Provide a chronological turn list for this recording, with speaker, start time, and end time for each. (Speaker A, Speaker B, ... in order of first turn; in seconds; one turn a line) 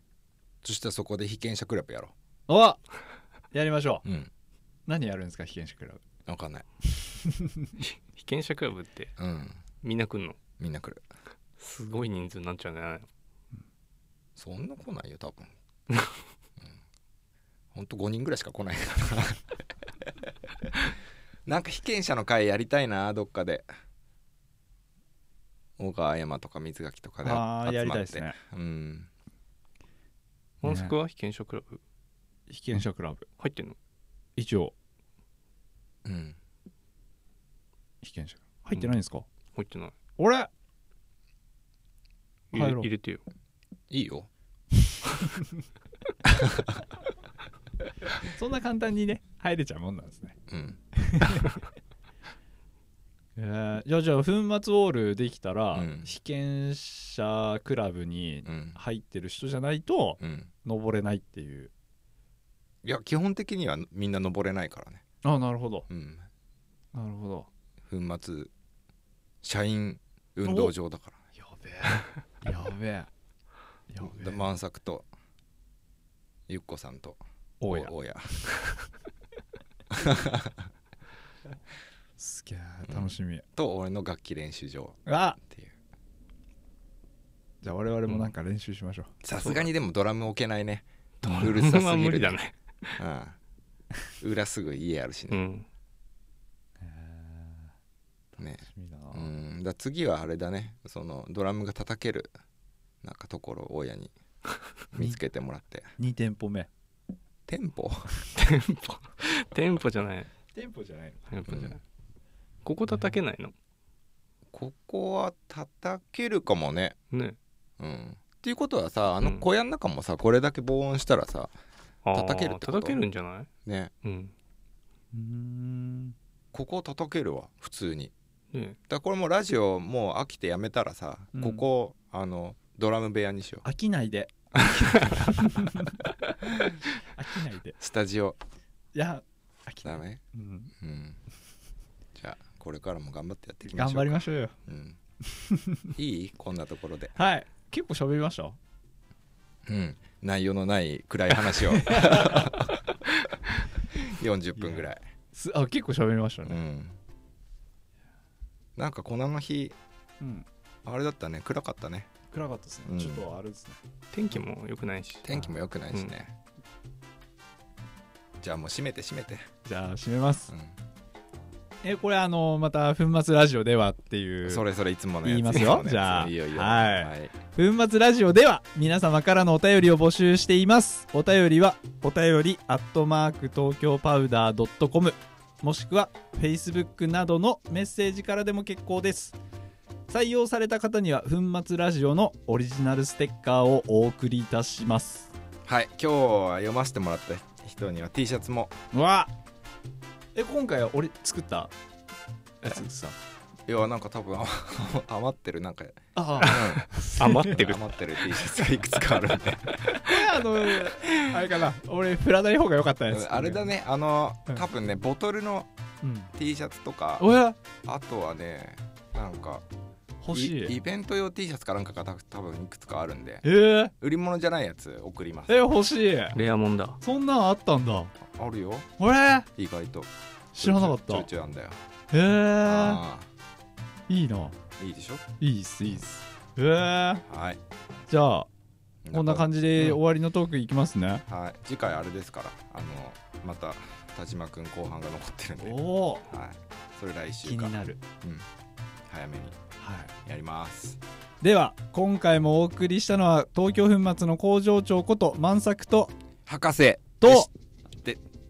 Speaker A: 0.6-2.1
Speaker B: 2.5-2.8
Speaker B: 3.5-4.0
Speaker A: 4.0-4.3
Speaker B: 4.9-6.0
Speaker A: 6.3-6.7
Speaker B: 7.0-7.7
Speaker C: 7.8-9.1
Speaker A: 9.2-9.6
Speaker C: 9.8-10.4
Speaker A: 10.6-11.0
Speaker C: 11.6-13.1
Speaker A: 14.4-15.5
Speaker A: 17.7-19.6
Speaker A: 21.5-23.7
Speaker A: 25.8-29.1
Speaker B: 27.2-28.4
Speaker C: 30.6-31.8
Speaker B: 30.6-30.9
Speaker B: 32.5-33.3
Speaker C: 33.4-33.8
Speaker B: 34.4-34.7
Speaker A: 36.0-36.4
Speaker B: 38.0-39.3
Speaker C: 39.5-39.9
Speaker B: 40.2-40.5
Speaker C: 42.5-43.2
Speaker B: 42.5-42.9
Speaker A: 43.9-44.3
Speaker A: 46.3-46.6
Speaker B: 48.2-50.4
Speaker A: 50.5-50.8
Speaker B: 50.9-51.5
Speaker B: 53.4-61.7
Speaker A: 55.7-56.1
Speaker A: 58.5-58.8
Speaker A: 60.2-60.5
Speaker A: 62.8-65.0
Speaker B: 65.2-65.9
Speaker A: 65.9-66.3
Speaker B: 66.9-67.5
Speaker A: 67.9-68.5
Speaker A: 69.4-71.2
Speaker B: 70.5-70.7
Speaker B: 71.4-73.1
Speaker B: 73.9-74.4
Speaker A: 74.0-75.1
Speaker A: 76.5-78.3
Speaker B: 77.6-77.9
Speaker A: 79.9-80.7
Speaker B: 82.2-83.5
Speaker A: 82.9-85.7
Speaker B: 85.1-85.4
Speaker B: 87.6-89.1
Speaker A: 89.2-92.4
Speaker C: 89.4-89.7
Speaker C: 91.2-93.0
Speaker A: 93.0-93.4
Speaker A: 94.2-95.4
Speaker C: 95.3-95.7
Speaker B: 96.8-97.7
Speaker B: 98.4-99.3
Speaker A: 98.4-102.3
Speaker A: 103.0-104.1
Speaker A: 104.9-105.9
Speaker B: 106.0-106.7
Speaker A: 107.5-108.1
Speaker C: 108.3-110.3
Speaker B: 110.5-111.2
Speaker C: 111.3-111.8
Speaker A: 111.5-111.8
Speaker C: 112.7-113.5
Speaker A: 114.5-117.0
Speaker C: 117.1-117.4
Speaker A: 117.8-121.5
Speaker C: 119.2-119.5
Speaker C: 122.0-123.5
Speaker A: 122.1-123.1
Speaker A: 123.7-123.9
Speaker C: 124.0-124.3
Speaker B: 125.1-126.2
Speaker A: 126.5-128.1
Speaker C: 128.5-128.8
Speaker A: 128.9-133.7
Speaker B: 131.3-131.6
Speaker B: 133.6-135.9
Speaker B: 137.1-137.8
Speaker A: 137.8-138.4
Speaker B: 138.9-140.7
Speaker A: 139.8-140.2
Speaker A: 140.8-141.2
Speaker A: 142.2-145.0
Speaker B: 143.7-144.6
Speaker B: 145.3-145.9
Speaker A: 146.0-147.1
Speaker B: 147.2-148.6
Speaker A: 149.7-153.0
Speaker B: 151.9-152.5
Speaker A: 153.9-155.0
Speaker B: 154.6-156.6
Speaker A: 156.4-157.0
Speaker A: 158.8-159.8
Speaker B: 160.2-160.5
Speaker A: 160.8-162.1
Speaker B: 162.3-163.8
Speaker A: 162.9-163.2
Speaker C: 164.1-165.3
Speaker A: 165.2-166.4
Speaker A: 168.4-169.5
Speaker B: 169.7-170.5
Speaker A: 170.5-170.8
Speaker B: 171.8-174.7
Speaker A: 174.4-177.3
Speaker B: 175.2-189.4
Speaker B: 190.1-195.3
Speaker A: 195.7-198.8
Speaker B: 198.9-199.3
Speaker B: 200.3-201.7
Speaker B: 202.6-203.2
Speaker A: 203.7-206.9
Speaker B: 206.2-207.7
Speaker C: 206.5-207.8
Speaker A: 207.4-211.3
Speaker B: 209.9-213.7
Speaker A: 213.1-215.7
Speaker B: 216.0-216.3
Speaker A: 216.3-217.3
Speaker B: 217.2-217.6
Speaker A: 217.8-219.7
Speaker B: 220.2-220.8
Speaker A: 220.3-225.6
Speaker B: 223.4-223.9
Speaker B: 225.5-226.4
Speaker C: 226.3-227.0
Speaker B: 227.0-228.1
Speaker A: 228.2-228.9
Speaker B: 229.0-229.5
Speaker A: 229.6-231.8
Speaker B: 230.6-231.3
Speaker B: 232.1-233.0
Speaker A: 232.6-233.3
Speaker B: 234.1-234.6
Speaker A: 234.8-235.3
Speaker B: 235.4-237.2
Speaker A: 237.3-237.6
Speaker B: 238.1-238.5
Speaker A: 239.0-239.5
Speaker B: 239.1-241.2
Speaker A: 241.3-248.5
Speaker B: 245.6-246.2
Speaker B: 247.4-248.0
Speaker A: 249.1-249.6
Speaker B: 249.8-250.1
Speaker A: 250.2-251.0
Speaker B: 251.4-256.1
Speaker A: 256.5-257.5
Speaker B: 257.2-257.5